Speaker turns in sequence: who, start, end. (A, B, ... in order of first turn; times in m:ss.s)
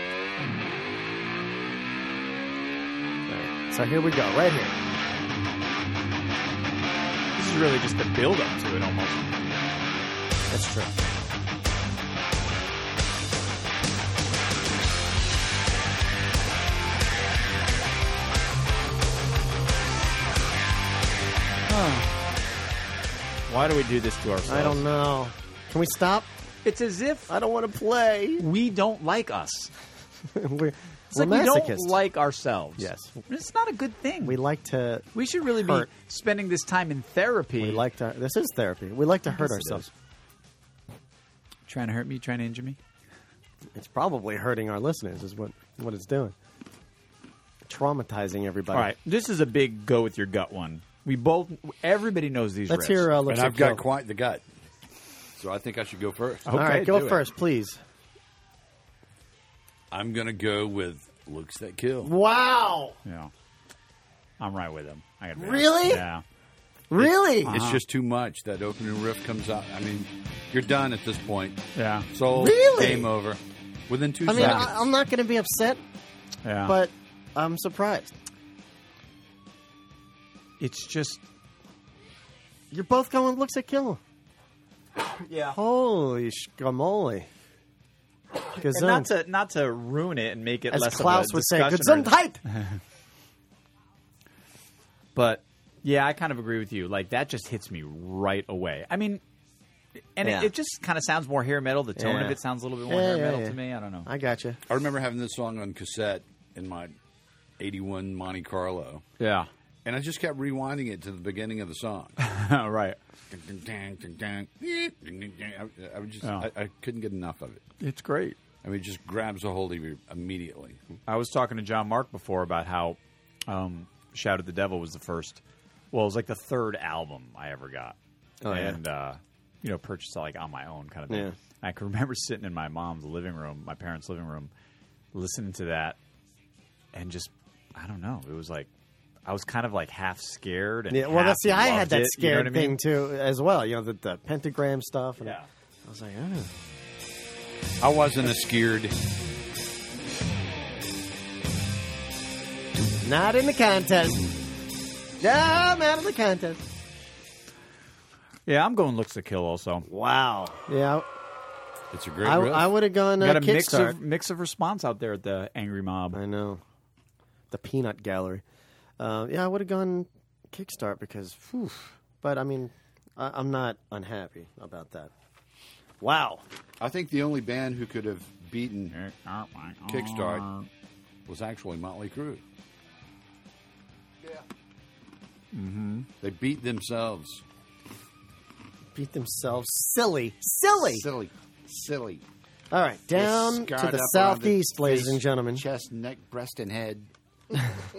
0:03.3-0:04.7 A
0:07.4-0:09.6 B
0:10.5-0:10.9 A
0:21.7-0:22.1 B
0:23.5-0:24.8 B
0:24.5-0:26.3 A
0:26.6-0:27.3 B
0:27.3-0:28.4 A
0:28.4-0:29.7 B
0:30.4-0:32.0 A
0:31.1-0:34.4 B
0:32.8-0:33.1 A
0:34.2-0:35.9 A
0:35.1-0:37.8 B
0:37.6-0:39.9 A
0:39.3-0:39.9 B
0:41.7-0:42.8 B
0:43.8-0:46.4 A
0:47.7-0:48.9 A
0:48.7-0:53.1 B
0:52.7-0:53.8 A
0:53.3-0:54.4 C
0:55.4-0:56.5 C
0:56.5-0:57.2 B
0:56.5-0:57.8 A
0:59.9-1:02.1 C
1:02.0-1:03.0 A
1:03.0-1:03.3 B
1:04.4-1:06.2 B
1:05.4-1:06.0 A
1:06.9-1:07.6 A
1:07.0-1:07.8 B
1:07.5-1:14.8 C
1:11.8-1:12.1 B
1:12.3-1:13.1 A
1:14.3-1:15.8 A
1:14.3-1:14.7 B
1:16.4-1:16.8 B
1:16.7-1:18.1 A
1:20.6-1:21.2 B
1:22.7-1:24.0 A
1:25.3-1:25.6 B
1:25.5-1:27.3 A
1:28.5-1:29.1 A
1:28.6-1:32.8 B
1:30.7-1:32.4 A
1:35.2-1:39.2 B
1:40.2-1:44.1 B
1:40.2-1:40.5 A
1:42.0-1:44.6 A
1:44.7-1:47.0 C
1:47.6-1:49.0 C
1:49.2-1:49.5 B
1:49.8-1:52.2 C
1:52.2-1:53.0 B
1:53.3-1:57.6 C
1:56.2-1:56.5 B
1:57.8-1:58.4 B
1:58.6-2:00.8 C
2:01.1-2:05.4 B
2:05.9-2:08.0 B
2:08.4-2:08.8 A
2:08.5-2:14.5 B
2:15.1-2:16.0 B
2:16.9-2:18.7 B
2:19.2-2:22.8 B
2:20.9-2:26.5 A
2:25.2-2:25.5 B
2:27.8-2:29.0 C
2:33.0-2:34.2 A
2:35.2-2:36.6 A
2:38.5-2:39.9 B
2:39.9-2:41.1 A
2:41.9-2:42.7 C
2:42.2-2:44.0 A
2:43.2-2:46.2 B
2:46.1-2:46.6 A
2:47.5-2:48.4 A
2:49.0-2:55.1 A
2:56.0-2:56.4 A
2:56.8-2:59.0 C
2:58.9-3:00.7 B
2:59.9-3:00.5 C
3:01.3-3:02.4 C
3:05.5-3:06.1 B
3:06.2-3:07.4 C
3:09.0-3:11.1 A
3:10.8-3:12.2 C
3:12.7-3:15.6 A
3:13.2-3:17.1 C